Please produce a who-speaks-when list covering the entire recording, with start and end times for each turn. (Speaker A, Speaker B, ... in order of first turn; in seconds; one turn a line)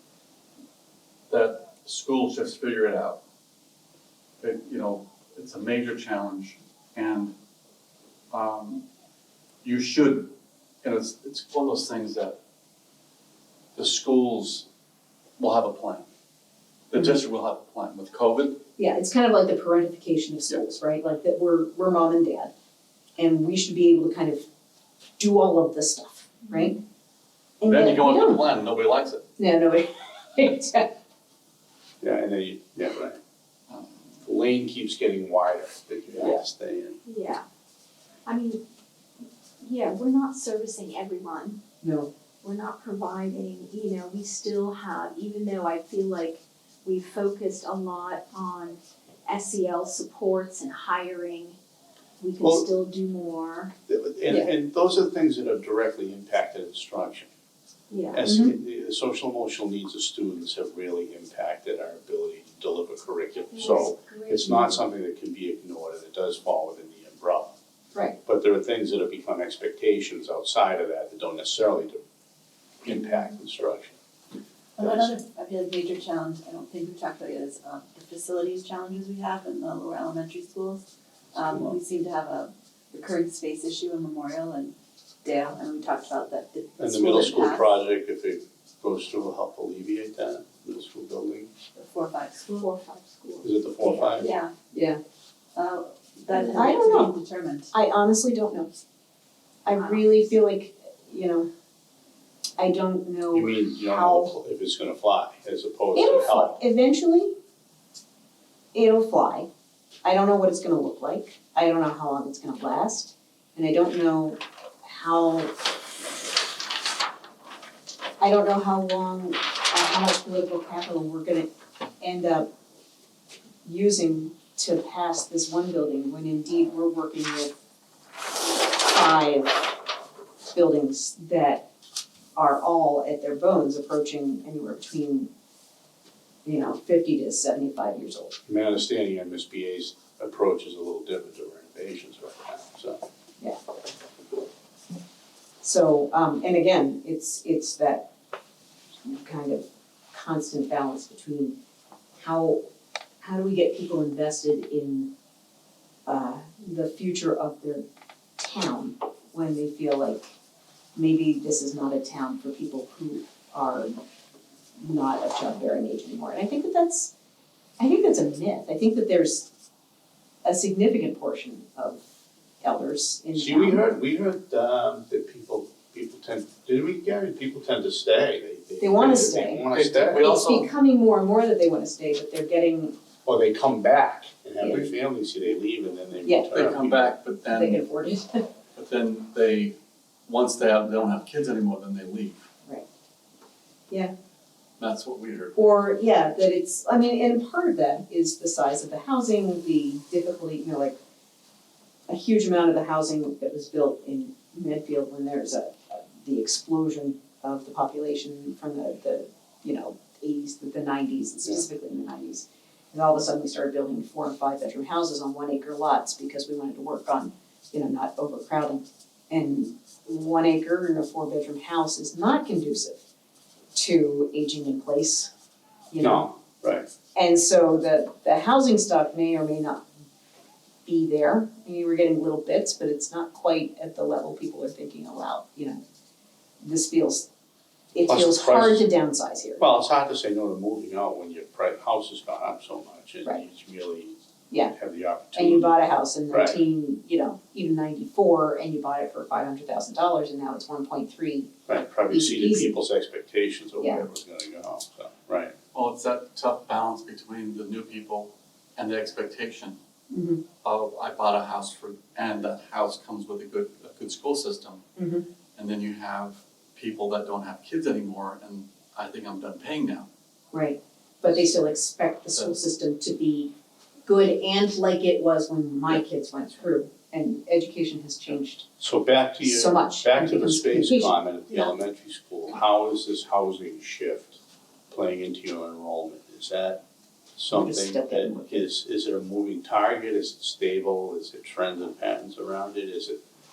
Speaker A: 1.3-3.2
Speaker A: 4.4-7.3
Speaker A: 8.3-8.8
Speaker A: 9.6-12.4
Speaker A: 13.7-14.7
Speaker A: 15.4-16.1
Speaker A: 16.9-18.6
Speaker B: 18.8-22.5
Speaker B: 23.2-24.4
Speaker B: 25.2-26.8
Speaker C: 26.4-26.8
Speaker B: 27.6-28.4
Speaker A: 27.6-29.2
Speaker B: 29.4-30.9
Speaker D: 32.0-33.2
Speaker D: 34.2-37.0
Speaker C: 37.0-37.4
Speaker C: 38.2-38.6
Speaker C: 39.6-41.6
Speaker B: 41.8-42.1
Speaker C: 42.4-51.6
Speaker C: 52.2-53.7
Speaker D: 52.4-52.7
Speaker D: 53.9-57.3
Speaker C: 57.9-58.2
Speaker D: 58.1-67.5
Speaker B: 58.2-58.5
Speaker C: 63.5-64.8
Speaker D: 68.2-72.0
Speaker D: 72.8-74.0
Speaker C: 72.9-73.2
Speaker E: 74.8-87.7
Speaker D: 74.8-75.1
Speaker D: 81.4-81.8
Speaker D: 86.8-91.5
Speaker E: 91.7-92.7
Speaker C: 92.5-94.3
Speaker D: 93.4-94.3
Speaker E: 94.2-94.5
Speaker B: 94.7-95.0
Speaker E: 95.5-97.7
Speaker C: 96.3-96.6
Speaker B: 96.4-97.1
Speaker B: 97.7-98.7
Speaker B: 99.6-101.5
Speaker C: 99.7-100.3
Speaker B: 102.6-104.3
Speaker D: 103.3-106.6
Speaker B: 105.9-107.3
Speaker B: 108.7-109.5
Speaker B: 110.0-115.5
Speaker B: 118.2-121.5
Speaker B: 122.0-122.5
Speaker B: 123.6-127.5
Speaker B: 128.8-129.7
Speaker B: 130.5-131.7
Speaker B: 132.3-135.3
Speaker B: 136.4-138.4
Speaker D: 138.4-143.0
Speaker B: 145.6-148.1
Speaker B: 149.0-151.6
Speaker B: 152.2-152.6
Speaker B: 153.2-155.1
Speaker B: 156.1-157.8
Speaker B: 158.4-160.3
Speaker B: 160.9-164.0
Speaker B: 164.8-167.1
Speaker B: 167.8-169.5
Speaker B: 170.4-172.0
Speaker B: 172.6-173.8
Speaker D: 173.3-180.3
Speaker B: 178.8-182.9
Speaker A: 179.7-180.7
Speaker D: 183.2-187.1
Speaker B: 184.6-184.9
Speaker B: 186.2-188.4
Speaker A: 186.5-187.8
Speaker A: 188.7-189.8
Speaker A: 190.3-192.4
Speaker A: 194.8-195.6
Speaker B: 195.5-201.0
Speaker B: 202.1-223.0
Speaker B: 223.7-225.3
Speaker B: 225.9-226.3
Speaker D: 226.0-226.9
Speaker B: 227.1-229.8
Speaker B: 230.8-235.8
Speaker B: 236.6-237.2
Speaker B: 237.9-239.6
Speaker D: 238.1-238.8
Speaker D: 239.6-244.2
Speaker D: 244.7-245.7
Speaker B: 245.3-251.5
Speaker D: 246.3-246.6
Speaker D: 251.7-255.5
Speaker B: 252.1-252.7
Speaker B: 253.8-254.1
Speaker A: 255.7-259.8
Speaker B: 260.1-260.4
Speaker A: 260.6-264.8
Speaker B: 265.0-265.2
Speaker A: 265.6-270.1
Speaker B: 270.5-273.5
Speaker B: 274.1-278.7
Speaker D: 278.8-284.4
Speaker B: 279.4-281.7
Speaker D: 284.9-286.8
Speaker D: 287.4-293.2
Speaker B: 287.5-288.7